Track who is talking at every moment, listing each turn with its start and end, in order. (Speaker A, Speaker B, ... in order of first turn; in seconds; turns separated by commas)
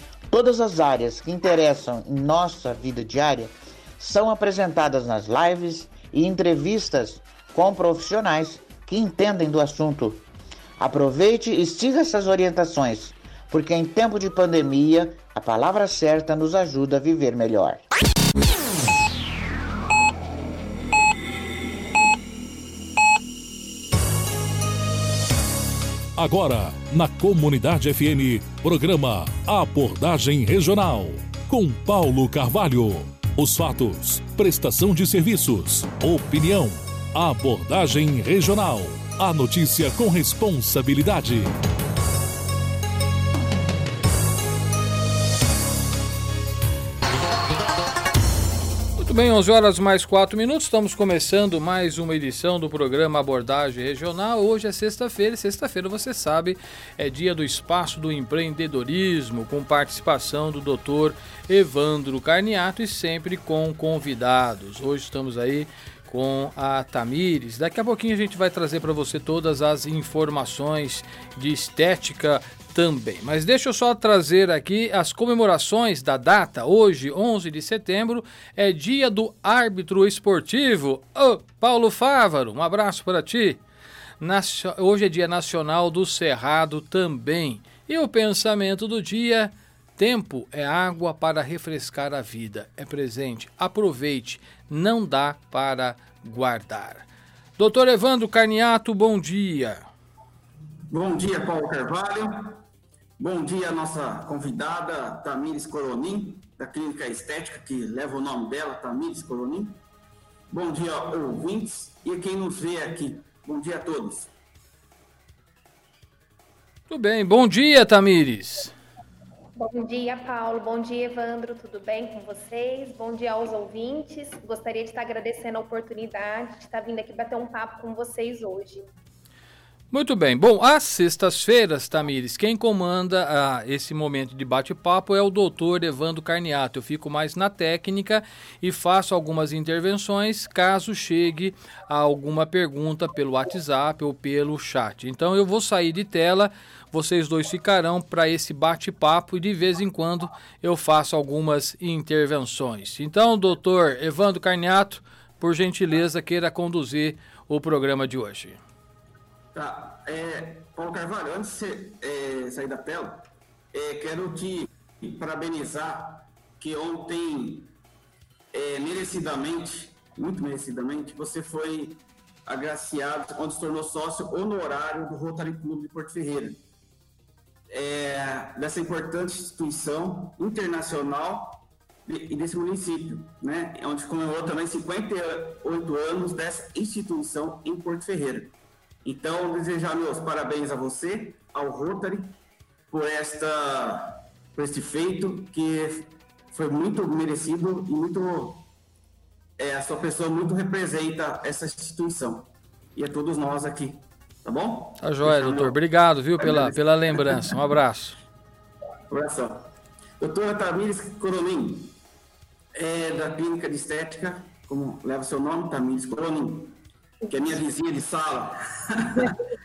Speaker A: 0.3-10.2, Speaker A: 10.8-17.8, Speaker B: 26.1-41.5, Speaker C: 49.0-83.6, Speaker C: 84.2-97.1, Speaker C: 97.6-99.8, Speaker D: 100.9-102.6, Speaker D: 103.2-109.8, Speaker D: 110.5-114.3, Speaker C: 116.9-118.7, Speaker E: 119.6-128.9, Speaker C: 129.9-158.6, Speaker D: 159.5-167.7, Speaker D: 168.5-176.6, Speaker D: 177.7-192.3, Speaker D: 192.9-198.7, Speaker D: 199.6-205.8, Speaker C: 205.0-208.2, Speaker D: 206.4-207.6, Speaker D: 209.1-211.9, Speaker D: 212.8-219.4